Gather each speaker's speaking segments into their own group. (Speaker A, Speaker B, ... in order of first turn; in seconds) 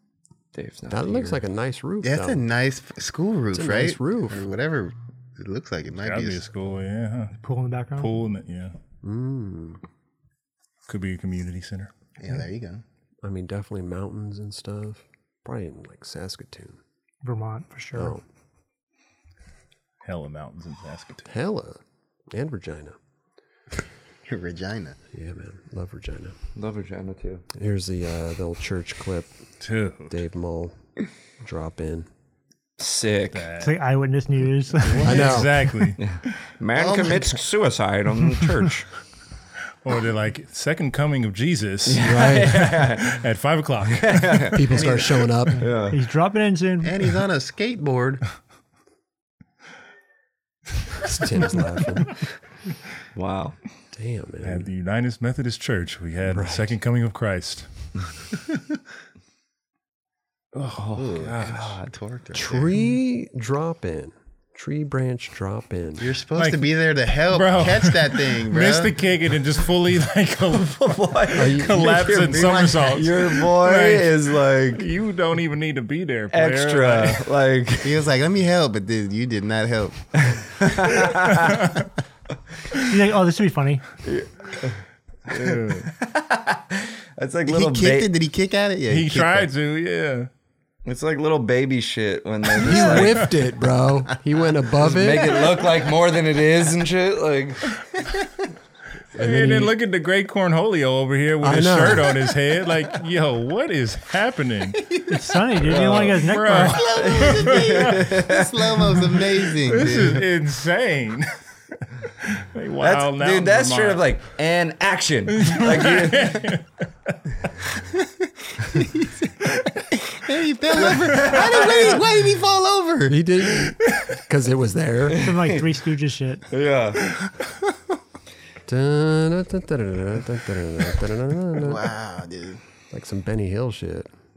Speaker A: 0.5-1.4, 26.6-27.4, 32.8-33.5, 36.0-38.9, 41.9-43.2, 43.9-44.6, 45.6-46.0, 53.1-53.6, 60.5-61.8, 70.5-74.8, 76.3-78.0, 80.2-81.5, 84.0-84.8, 85.3-88.1, 90.8-93.3, 94.8-97.8, 105.6-106.2, 106.9-109.0, 112.8-116.5, 121.0-122.0, 125.1-125.7, 126.5-127.0
Speaker B: 0.9-2.4, 3.5-4.5, 9.0-9.8, 13.2-16.8, 17.9-18.2, 21.3-21.8, 22.3-23.0, 25.1-26.4, 27.5-29.3, 30.1-30.8, 31.4-32.1, 35.0-35.6, 42.0-42.6, 44.5-45.7, 51.0-52.2, 53.9-54.7, 56.3-56.7, 62.3-66.1, 71.3-71.9, 92.6-95.6, 99.1-99.7, 101.4-102.2, 123.1-125.3, 128.7-132.0, 132.9-134.1
Speaker C: 2.0-6.5, 12.2-12.8, 24.3-25.0, 36.8-37.4, 44.7-45.3, 46.8-48.2, 60.9-62.7, 66.0-69.0, 72.3-73.0, 77.8-81.0, 87.5-89.5, 106.7-110.3, 118.7-119.1, 120.0-123.2, 131.6-132.6
Speaker D: 6.0-7.3, 8.0-8.7, 10.9-11.9, 20.0-21.3, 29.6-30.1, 33.3-33.7, 34.9-36.0, 39.8-44.6, 54.4-57.7, 61.2-61.7, 66.3-66.7, 67.3-74.2, 74.7-77.3, 81.3-81.8, 85.3-85.9, 88.9-90.3, 99.1-104.8, 105.8-108.1, 109.4-111.3, 112.2-114.0, 115.3-117.1, 123.6-124.2
Speaker E: 7.4-8.1, 17.2-18.1, 33.6-35.3, 45.5-46.9, 82.9-83.8, 105.1-106.8, 125.2-126.4